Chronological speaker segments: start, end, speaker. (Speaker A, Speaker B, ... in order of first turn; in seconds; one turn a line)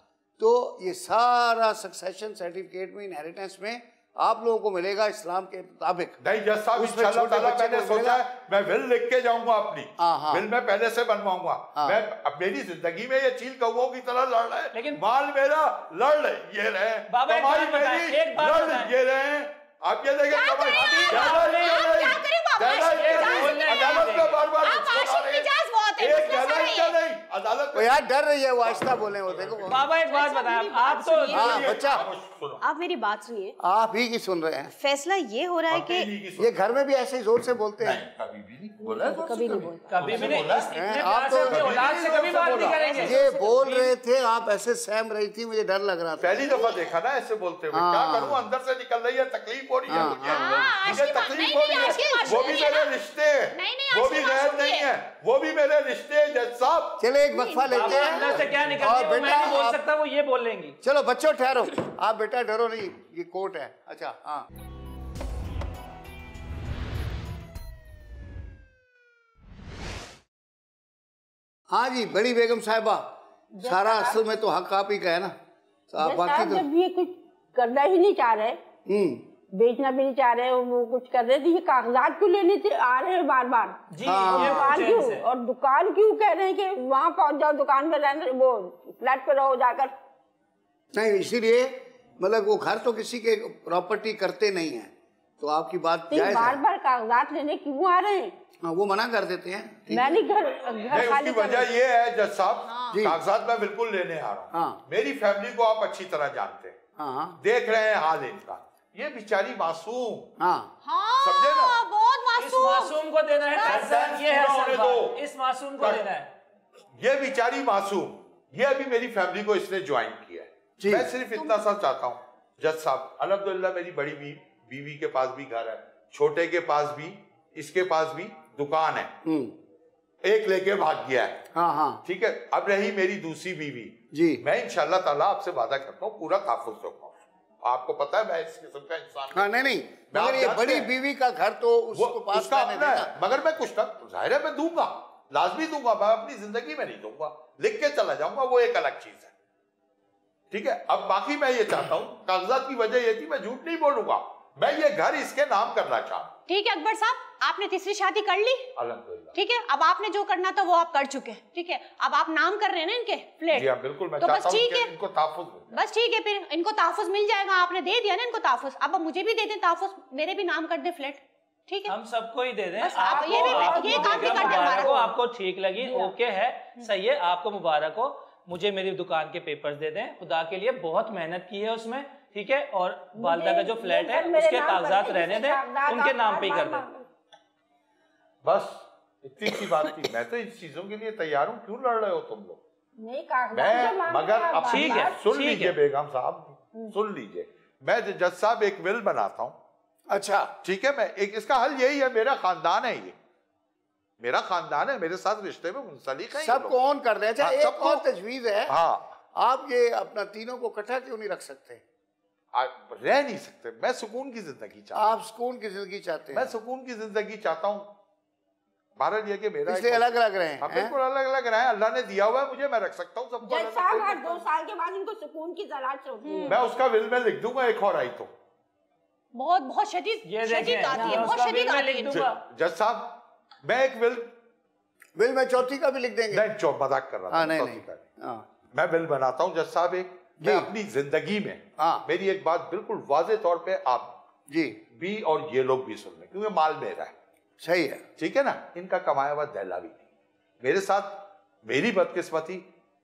Speaker A: 0.4-6.2
Speaker B: 6.2-25.5
Speaker A: 6.8-8.2
Speaker A: 10.0-10.5
Speaker C: 14.7-15.0
Speaker C: 17.1-18.9
Speaker D: 20.3-24.1
Speaker C: 20.8-21.9
Speaker C: 22.8-24.5
Speaker D: 24.6-26.9
Speaker B: 26.0-28.0
Speaker A: 27.7-29.8
Speaker B: 28.6-29.8
Speaker C: 29.7-31.5
Speaker D: 30.1-31.3
Speaker E: 31.2-31.9
Speaker B: 31.3-32.6
Speaker A: 31.3-32.1
Speaker E: 32.6-33.6
Speaker A: 33.6-34.7
Speaker E: 34.8-36.1
Speaker B: 35.7-36.7
Speaker A: 36.4-38.0
Speaker B: 37.8-40.9
Speaker A: 39.0-39.7
Speaker E: 39.0-39.9
Speaker C: 39.9-43.9
Speaker A: 40.7-41.8
Speaker B: 41.5-43.0
Speaker E: 42.6-43.2
Speaker A: 43.0-46.8
Speaker B: 46.2-57.1
Speaker A: 47.7-48.4
Speaker A: 49.9-50.8
Speaker D: 50.2-53.0
Speaker E: 52.0-52.3
Speaker D: 53.5-54.9
Speaker A: 57.0-59.8
Speaker D: 57.3-58.4
Speaker C: 57.6-60.8
Speaker A: 60.8-64.5
Speaker A: 71.7-75.3
Speaker F: 73.6-74.2
Speaker A: 75.9-76.7
Speaker F: 76.0-78.6
Speaker A: 78.9-79.3
Speaker F: 79.5-89.9
Speaker C: 83.9-85.3
Speaker A: 84.0-84.9
Speaker A: 90.9-96.6
Speaker F: 96.1-98.3
Speaker A: 98.6-100.2
Speaker F: 99.9-101.7
Speaker B: 100.9-106.8
Speaker D: 102.7-103.0
Speaker A: 102.9-103.2
Speaker A: 104.5-104.8
Speaker A: 107.0-107.4
Speaker B: 107.4-110.3
Speaker A: 110.4-110.7
Speaker D: 110.8-113.0
Speaker B: 111.2-111.8
Speaker C: 112.4-116.3
Speaker D: 113.5-113.8
Speaker B: 113.6-115.2
Speaker B: 117.0-129.1
Speaker A: 120.8-121.1
Speaker D: 121.3-121.7
Speaker A: 129.2-129.6
Speaker B: 130.2-131.4
Speaker A: 131.5-132.0
Speaker B: 132.1-139.5
Speaker A: 134.1-134.4
Speaker A: 139.3-143.1
Speaker B: 140.1-140.9
Speaker B: 141.9-149.3
Speaker B: 150.5-156.3
Speaker D: 156.5-158.7
Speaker B: 158.8-159.3
Speaker D: 159.3-164.9
Speaker B: 163.5-165.7
Speaker D: 165.7-171.9
Speaker C: 171.9-186.9
Speaker D: 172.8-174.9
Speaker F: 173.1-175.1
Speaker E: 173.2-175.0
Speaker F: 175.8-176.1
Speaker F: 183.2-187.1
Speaker B: 188.4-192.6
Speaker F: 193.0-195.2
Speaker B: 193.5-199.6
Speaker C: 194.6-195.8
Speaker A: 200.1-200.5
Speaker B: 200.6-203.2
Speaker B: 204.2-206.8
Speaker A: 206.4-208.8
Speaker B: 207.4-208.0
Speaker B: 208.7-209.2
Speaker A: 209.3-211.8
Speaker B: 212.5-215.1
Speaker A: 214.9-216.5
Speaker B: 216.3-217.9
Speaker B: 219.0-224.4
Speaker A: 219.7-220.9
Speaker F: 223.4-226.6
Speaker D: 226.2-226.6
Speaker B: 226.5-228.3
Speaker D: 229.3-232.2
Speaker C: 230.2-232.4
Speaker F: 231.0-231.3
Speaker B: 232.1-234.3
Speaker A: 235.2-236.5
Speaker B: 236.3-238.0
Speaker A: 237.3-238.4
Speaker B: 238.7-244.2
Speaker A: 240.4-240.7
Speaker A: 241.8-242.1
Speaker A: 244.5-244.8
Speaker B: 244.9-247.2
Speaker A: 247.6-248.0
Speaker B: 248.2-250.0
Speaker B: 250.6-252.6